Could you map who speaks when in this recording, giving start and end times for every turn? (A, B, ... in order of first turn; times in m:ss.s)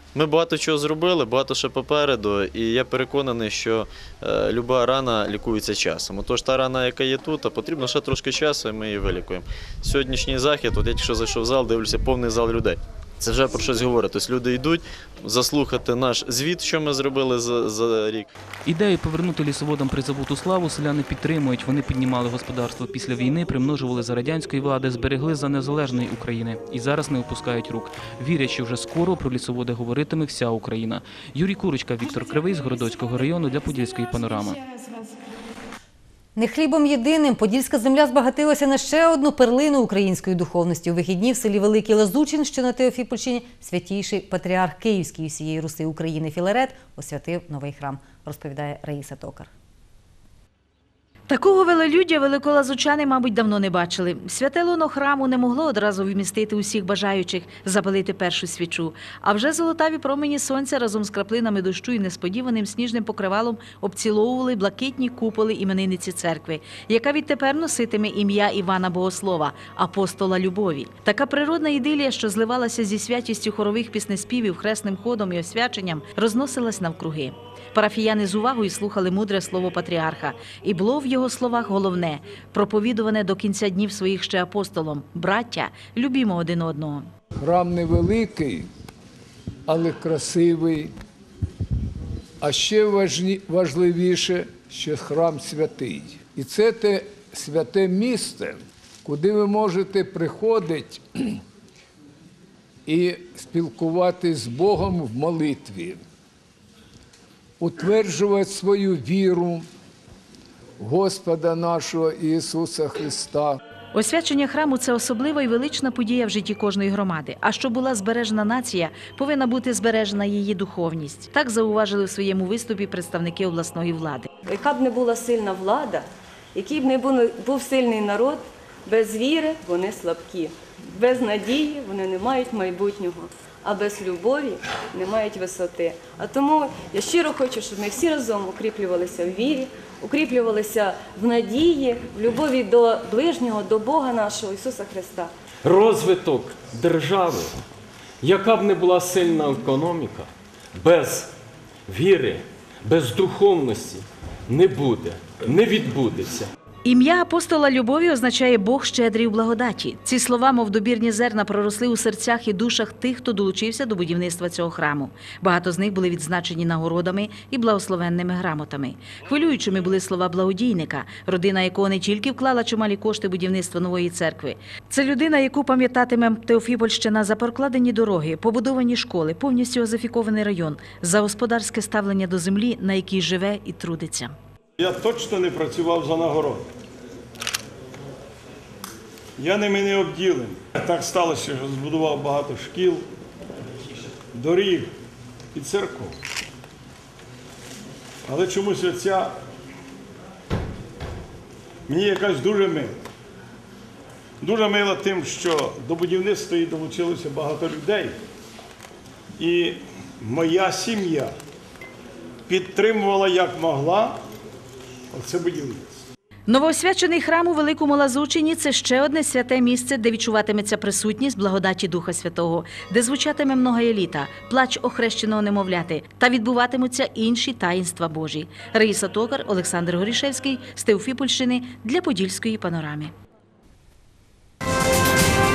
0:00.2-0:18.3 A
0:18.6-0:34.6 B
0:36.4-0:49.5 C
0:51.3-1:27.1 D
1:27.4-1:28.7 E
1:29.7-1:31.0 E
1:32.4-1:41.4 E
1:42.9-1:46.0 E
1:47.6-1:49.7 E
1:50.8-1:53.6 E
1:53.9-2:04.3 D
2:04.5-2:25.3 F
2:25.6-2:27.6 G
2:28.2-2:31.3 G
2:31.9-2:36.5 G
2:36.8-3:04.4 D
3:04.8-3:06.7 H
3:09.4-3:13.1 H
3:14.3-3:14.9 H
3:15.5-3:16.1 H
3:18.3-3:19.3 H
3:21.9-3:23.0 H
3:24.4-3:28.2 H
3:29.4-3:31.3 H
3:32.5-3:34.2 H
3:35.1-3:36.0 H
3:36.5-3:53.1 D